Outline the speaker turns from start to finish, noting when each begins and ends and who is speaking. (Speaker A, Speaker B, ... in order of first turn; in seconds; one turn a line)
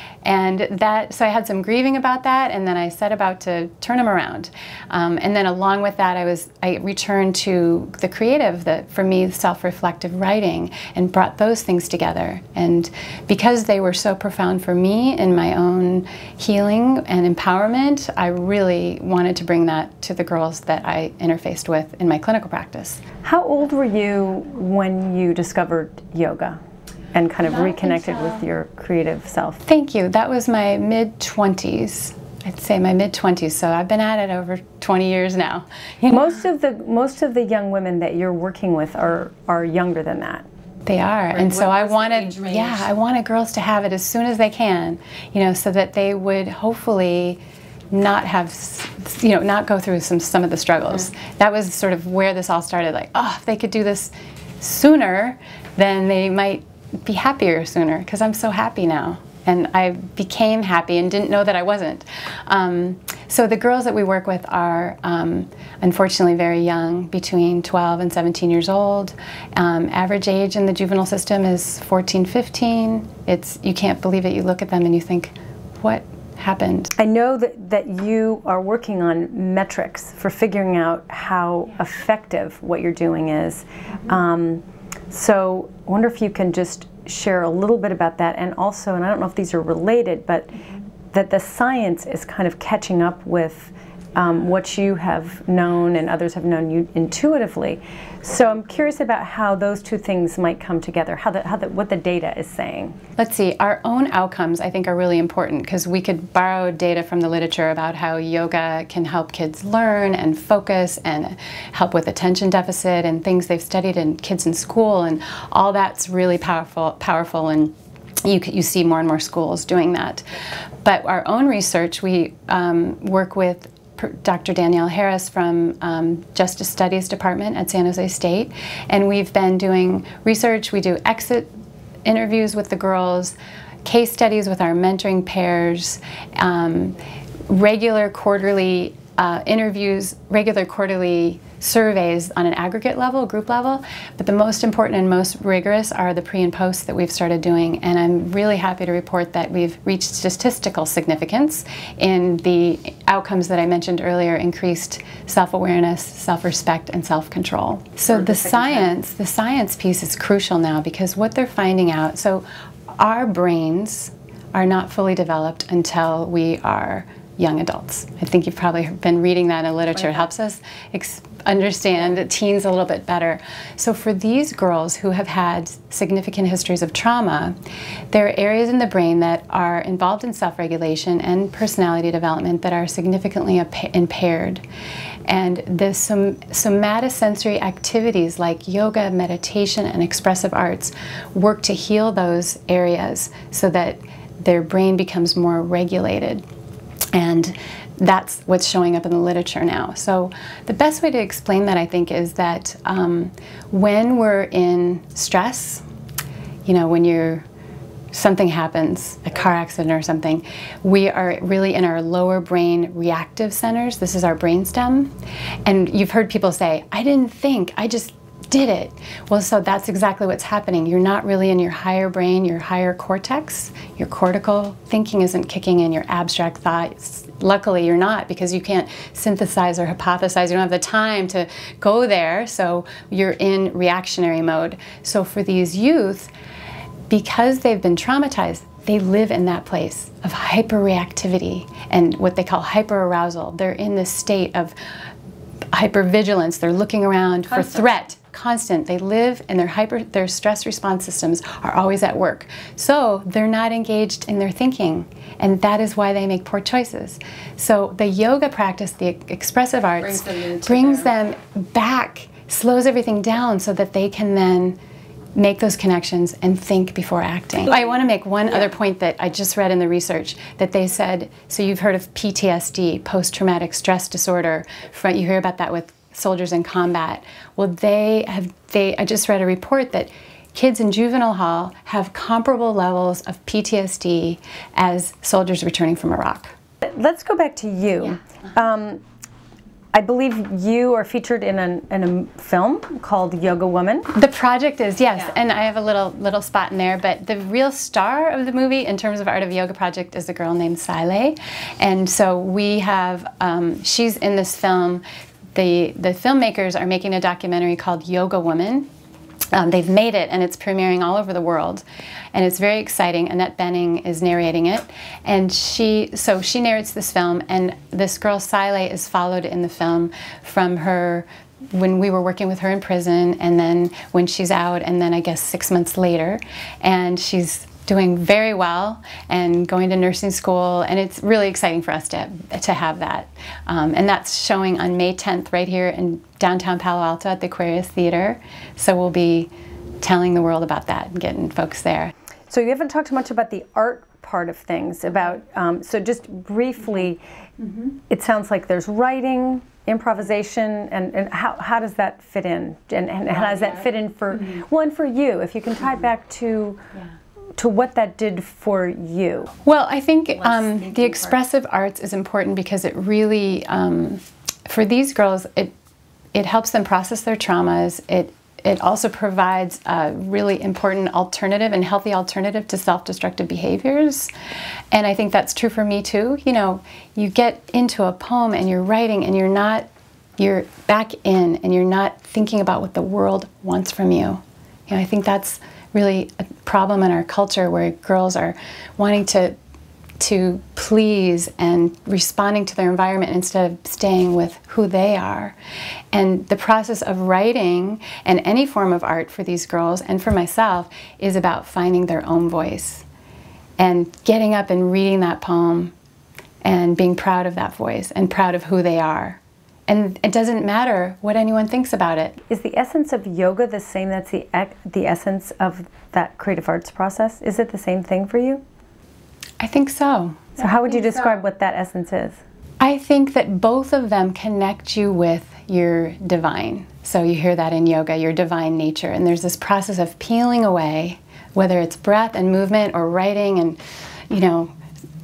Speaker A: 0.2-23.0
Speaker B: 23.2-26.6
Speaker B: 27.1-29.6
Speaker A: 27.5-28.1
Speaker A: 29.6-36.4
Speaker B: 36.1-40.4
Speaker A: 40.9-47.4
Speaker A: 47.9-76.9
Speaker B: 77.0-90.5
Speaker B: 91.1-103.0
Speaker A: 103.2-117.7
Speaker A: 118.2-120.2
Speaker A: 120.8-131.5
Speaker A: 132.0-137.0
Speaker A: 137.5-162.4
Speaker A: 163.0-177.5
Speaker A: 178.1-184.6
Speaker A: 185.3-196.4
Speaker A: 197.1-205.8
Speaker A: 206.7-207.4
Speaker A: 208.1-215.1
Speaker A: 215.7-236.3
Speaker A: 237.1-244.7
Speaker A: 245.7-264.8
Speaker B: 247.5-247.9
Speaker A: 265.3-286.5
Speaker B: 286.8-289.0
Speaker B: 289.9-294.1
Speaker A: 294.1-305.0
Speaker A: 305.5-308.9
Speaker A: 309.5-339.5
Speaker A: 340.0-342.1
Speaker B: 342.5-347.2
Speaker B: 348.1-356.8
Speaker B: 357.6-359.5
Speaker A: 359.6-365.7
Speaker B: 360.6-361.1
Speaker A: 366.3-374.3
Speaker A: 374.9-379.9
Speaker A: 380.4-389.5
Speaker A: 390.2-395.5
Speaker A: 396.1-403.1
Speaker A: 403.8-405.9
Speaker A: 406.6-412.4
Speaker B: 412.5-418.6
Speaker A: 419.6-420.6
Speaker B: 420.6-422.4
Speaker A: 422.8-433.8
Speaker A: 434.3-434.7